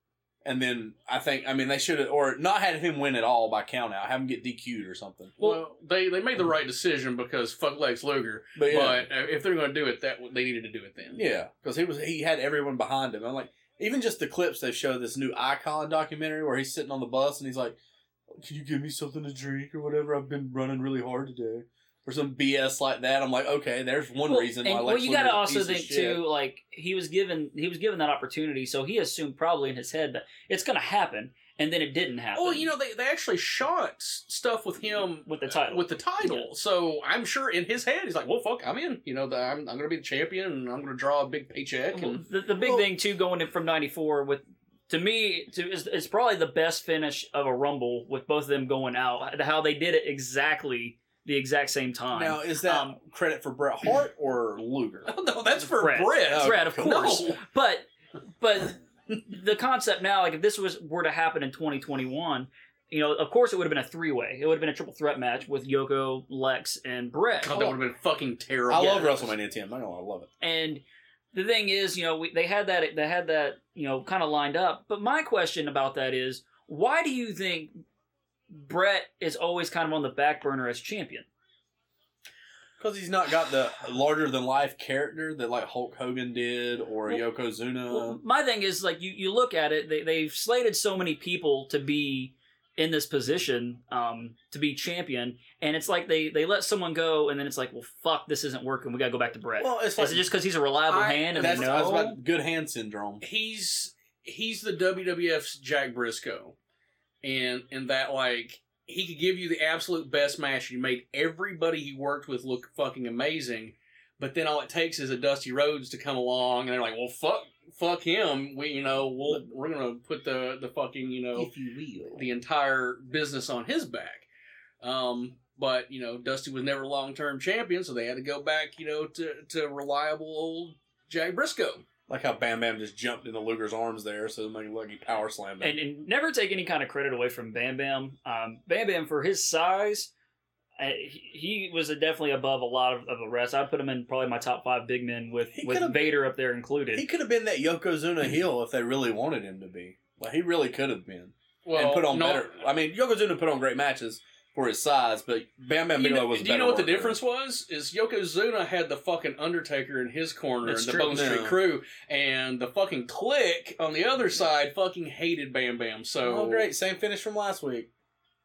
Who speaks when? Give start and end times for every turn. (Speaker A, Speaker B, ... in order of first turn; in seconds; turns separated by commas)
Speaker A: 0.4-5.6, Speaker B: 5.4-11.2, Speaker A: 8.6-9.1, Speaker A: 11.1-17.8, Speaker A: 18.3-26.2, Speaker C: 24.3-32.7, Speaker B: 32.4-42.2, Speaker C: 35.3-36.5, Speaker C: 41.9-53.0, Speaker A: 42.6-42.9, Speaker A: 52.1-55.1, Speaker B: 55.1-57.4, Speaker C: 55.8-57.9, Speaker A: 56.3-57.2, Speaker C: 58.4-67.8, Speaker B: 67.4-69.3, Speaker A: 68.7-70.3, Speaker C: 70.4-77.7, Speaker C: 78.5-81.3, Speaker A: 82.8-88.2, Speaker C: 87.9-102.2, Speaker A: 99.6-100.3, Speaker B: 100.9-101.9, Speaker A: 101.3-103.2, Speaker B: 103.2-106.6, Speaker B: 107.2-121.5, Speaker A: 121.3-122.3, Speaker B: 122.2-124.3, Speaker B: 124.8-131.8, Speaker A: 132.1-135.8, Speaker C: 135.6-140.1, Speaker C: 140.8-147.1, Speaker A: 145.5-146.0, Speaker A: 146.9-157.2, Speaker B: 151.7-152.5, Speaker B: 156.0-166.7, Speaker C: 160.6-161.2, Speaker A: 161.0-161.6, Speaker A: 166.2-167.9